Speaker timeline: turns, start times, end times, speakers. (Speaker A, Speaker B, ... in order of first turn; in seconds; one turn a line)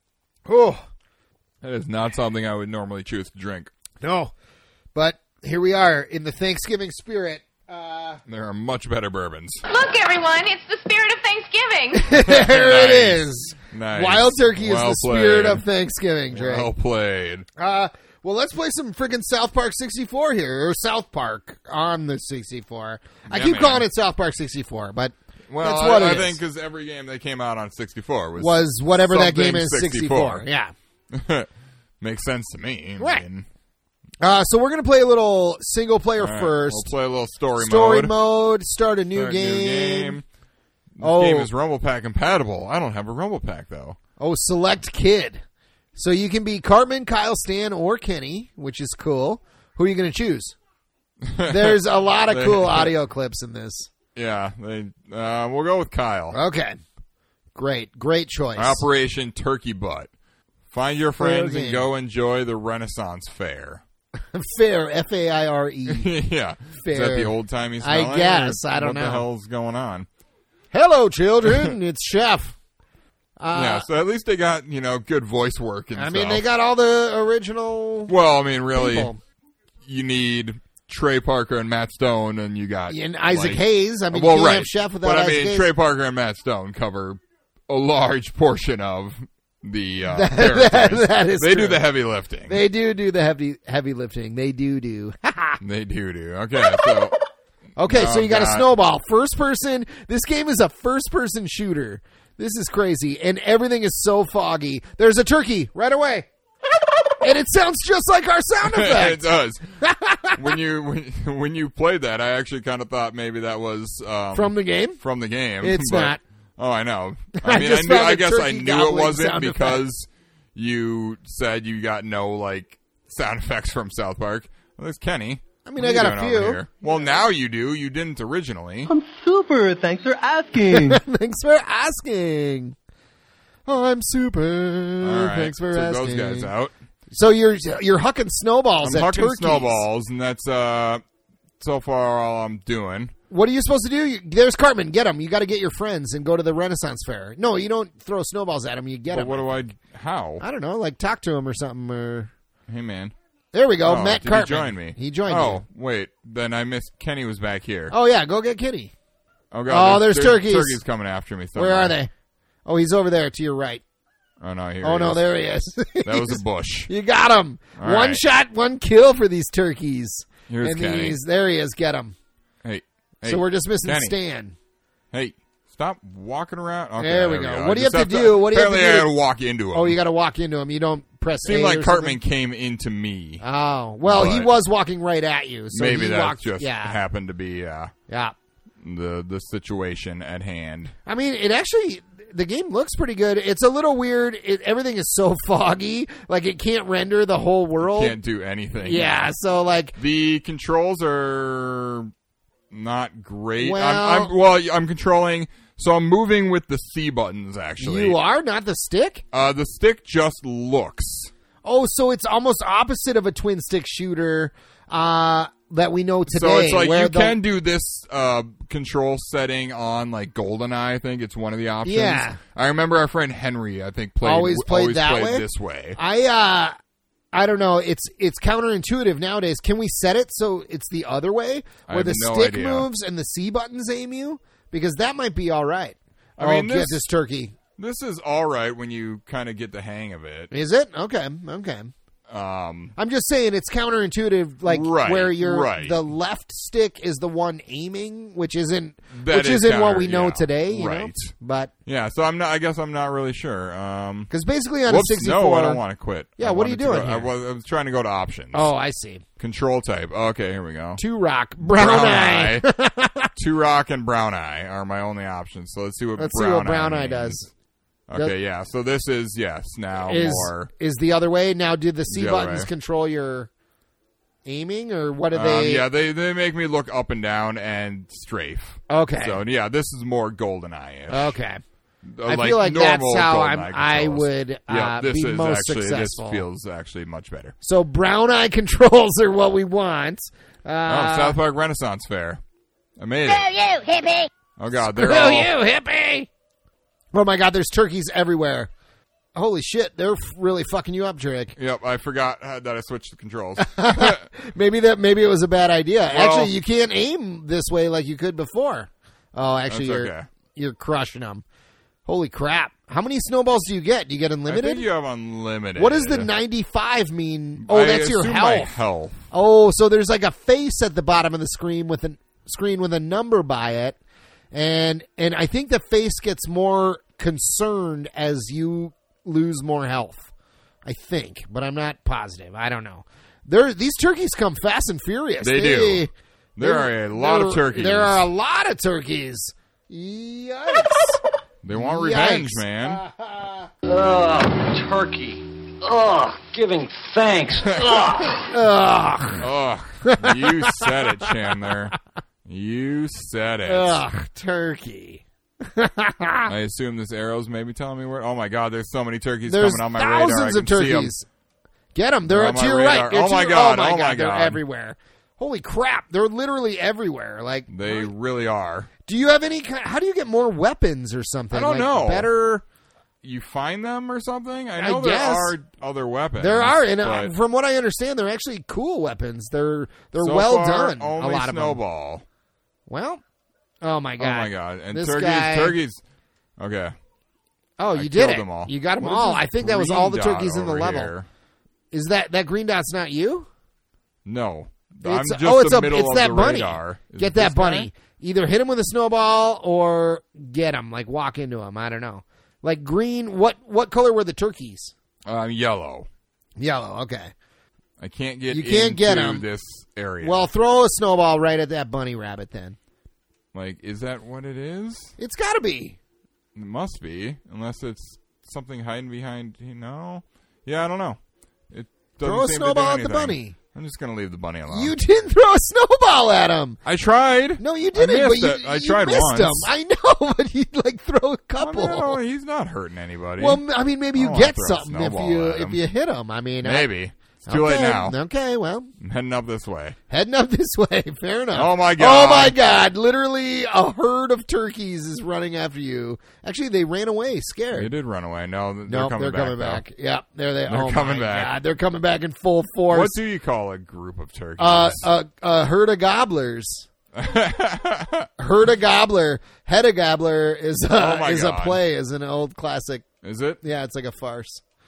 Speaker A: 0.5-0.8
Speaker B: 1.6-3.7
Speaker A: 4.0-4.3
Speaker A: 5.0-8.2
Speaker B: 8.3-9.6
Speaker C: 9.7-12.1
Speaker A: 11.9-16.7
Speaker B: 12.1-15.7
Speaker B: 16.3-17.5
Speaker A: 17.6-26.4
Speaker B: 23.3-23.9
Speaker B: 25.5-30.5
Speaker A: 28.4-30.7
Speaker B: 31.1-33.5
Speaker A: 33.0-33.2
Speaker A: 34.2-36.9
Speaker B: 36.2-38.1
Speaker A: 37.6-40.2
Speaker B: 39.1-40.2
Speaker B: 41.0-44.0
Speaker A: 41.0-41.5
Speaker A: 44.2-45.4
Speaker A: 46.0-50.6
Speaker B: 51.2-52.9
Speaker A: 51.5-53.9
Speaker B: 54.1-56.4
Speaker A: 56.3-56.8
Speaker A: 57.5-58.9
Speaker B: 58.6-60.1
Speaker B: 60.7-63.8
Speaker A: 61.2-61.9
Speaker A: 64.3-66.1
Speaker B: 65.9-70.1
Speaker A: 66.8-69.2
Speaker A: 70.7-72.6
Speaker B: 71.5-71.8
Speaker A: 73.4-73.9
Speaker B: 73.5-76.4
Speaker A: 76.0-78.1
Speaker B: 78.1-79.1
Speaker A: 78.7-79.2
Speaker B: 79.8-92.6
Speaker A: 82.9-85.7
Speaker A: 90.1-91.8
Speaker A: 92.5-95.6
Speaker B: 95.6-97.2
Speaker A: 97.8-106.3
Speaker B: 97.9-98.7
Speaker A: 107.2-110.5
Speaker B: 108.6-109.7
Speaker B: 110.4-128.9
Speaker A: 114.3-115.0
Speaker A: 115.6-116.2
Speaker A: 117.4-119.8
Speaker A: 125.7-126.7
Speaker D: 128.9-131.0
Speaker A: 130.7-132.8
Speaker A: 133.7-136.5
Speaker B: 135.0-136.7
Speaker A: 137.1-139.8
Speaker B: 138.8-141.0
Speaker B: 141.6-143.1
Speaker A: 143.3-149.6
Speaker B: 149.1-150.4
Speaker A: 150.4-152.3
Speaker B: 152.7-153.1
Speaker A: 153.5-155.6
Speaker B: 153.8-157.9
Speaker A: 157.9-158.9
Speaker B: 159.5-161.9
Speaker A: 159.7-160.8
Speaker A: 161.6-162.1
Speaker A: 162.7-163.8
Speaker B: 164.4-165.2
Speaker A: 164.8-172.2
Speaker B: 166.0-166.9
Speaker B: 167.8-168.2
Speaker B: 170.5-171.2
Speaker B: 172.6-174.2
Speaker A: 173.2-174.6
Speaker B: 175.1-180.0
Speaker A: 177.0-179.1
Speaker A: 179.7-182.2
Speaker B: 181.4-183.4
Speaker A: 183.4-187.0
Speaker B: 184.0-184.5
Speaker B: 185.7-187.9
Speaker A: 188.1-188.3
Speaker B: 188.8-190.9
Speaker A: 191.1-198.2
Speaker B: 197.8-199.2
Speaker A: 198.8-200.0
Speaker B: 200.0-202.1
Speaker B: 202.7-208.2
Speaker A: 203.6-204.3
Speaker A: 207.8-209.2
Speaker B: 209.3-211.3
Speaker A: 211.6-217.4
Speaker B: 216.3-226.0
Speaker A: 221.8-222.4
Speaker A: 224.2-226.8
Speaker A: 227.3-237.6
Speaker B: 231.9-232.9
Speaker B: 236.4-237.1
Speaker B: 237.8-240.5
Speaker A: 240.5-241.9
Speaker B: 242.3-242.9
Speaker A: 243.0-251.7
Speaker B: 244.7-246.0
Speaker B: 249.1-251.3
Speaker B: 251.9-254.3
Speaker A: 254.3-255.8
Speaker B: 254.9-258.7
Speaker A: 256.4-257.3
Speaker A: 258.5-259.2
Speaker B: 259.4-261.0
Speaker A: 261.0-263.3
Speaker B: 261.6-262.7
Speaker B: 263.4-267.4
Speaker A: 266.2-267.5
Speaker B: 268.1-270.7
Speaker A: 270.0-273.5
Speaker B: 272.1-272.7
Speaker A: 274.4-275.9
Speaker B: 275.3-281.4
Speaker A: 278.9-279.4
Speaker A: 281.1-281.6
Speaker B: 282.0-287.6
Speaker A: 282.2-286.4
Speaker A: 287.6-291.4
Speaker B: 290.9-292.4
Speaker B: 293.0-293.6
Speaker B: 294.6-295.5
Speaker A: 294.7-296.3
Speaker A: 297.1-298.7
Speaker A: 299.4-301.6
Speaker B: 301.6-304.3
Speaker A: 303.6-311.4
Speaker B: 306.1-306.6
Speaker B: 309.7-310.3
Speaker A: 312.1-314.9
Speaker B: 314.5-316.3
Speaker A: 315.8-318.7
Speaker B: 317.6-319.2
Speaker A: 319.3-324.0
Speaker A: 324.5-330.3
Speaker A: 330.9-341.2
Speaker B: 335.4-338.3
Speaker B: 341.6-343.0
Speaker A: 341.7-343.7
Speaker E: 343.8-348.5
Speaker B: 347.6-348.0
Speaker A: 348.5-349.5
Speaker B: 349.4-351.9
Speaker A: 350.1-351.7
Speaker B: 352.5-354.0
Speaker A: 353.7-356.5
Speaker B: 356.5-361.1
Speaker A: 359.5-361.3
Speaker A: 361.9-368.1
Speaker B: 362.2-364.6
Speaker B: 367.7-368.9
Speaker A: 369.1-372.3
Speaker B: 371.5-372.6
Speaker B: 373.2-377.3
Speaker A: 374.8-375.6
Speaker A: 376.4-381.8
Speaker B: 380.2-382.2
Speaker A: 382.9-383.2
Speaker A: 383.8-385.8
Speaker B: 384.2-386.0
Speaker B: 386.6-386.9
Speaker A: 387.8-391.1
Speaker B: 387.9-391.3
Speaker A: 391.9-393.5
Speaker B: 394.2-397.9
Speaker A: 395.0-404.9
Speaker B: 405.3-406.1
Speaker A: 406.6-407.3
Speaker B: 408.0-410.5
Speaker A: 408.5-409.4
Speaker A: 410.2-412.8
Speaker B: 413.5-415.1
Speaker A: 415.2-416.0
Speaker B: 416.6-421.2
Speaker B: 421.7-425.0
Speaker A: 422.2-423.6
Speaker A: 424.7-426.8
Speaker B: 426.9-429.7
Speaker A: 427.6-432.2
Speaker B: 431.6-433.6
Speaker A: 433.4-436.9
Speaker B: 434.2-435.8
Speaker B: 436.6-438.2
Speaker A: 437.5-438.9
Speaker B: 439.0-440.0
Speaker A: 440.1-447.9
Speaker B: 441.5-442.6
Speaker B: 447.7-449.8
Speaker A: 448.9-453.2
Speaker B: 450.7-451.6
Speaker B: 452.9-455.1
Speaker A: 454.6-456.9
Speaker B: 457.1-458.3
Speaker A: 458.4-463.1
Speaker B: 460.9-461.8
Speaker B: 463.2-463.6
Speaker A: 463.6-464.6